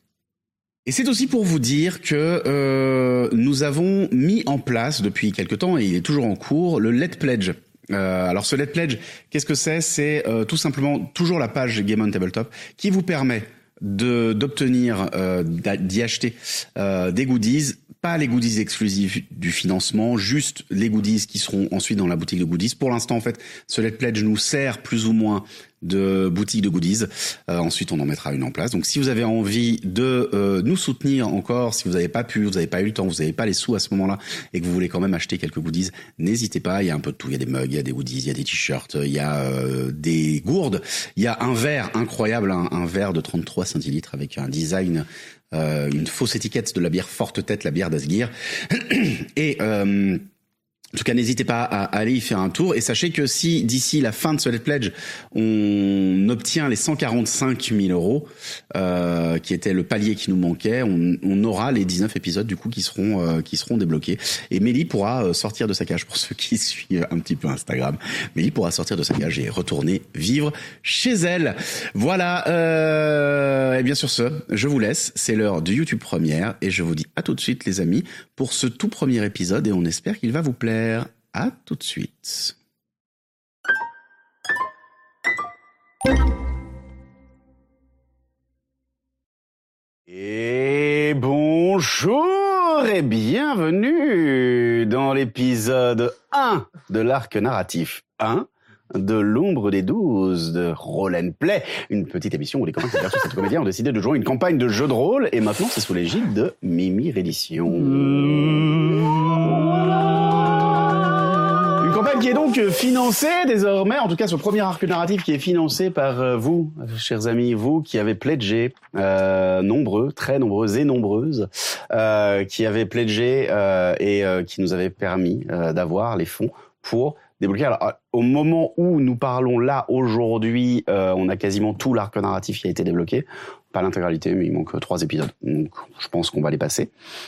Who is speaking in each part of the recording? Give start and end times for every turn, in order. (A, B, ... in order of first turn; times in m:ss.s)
0:00.8-0:50.2 A
0:50.9-1:22.5 A
1:30.1-1:51.0 A
1:51.7-2:16.9 A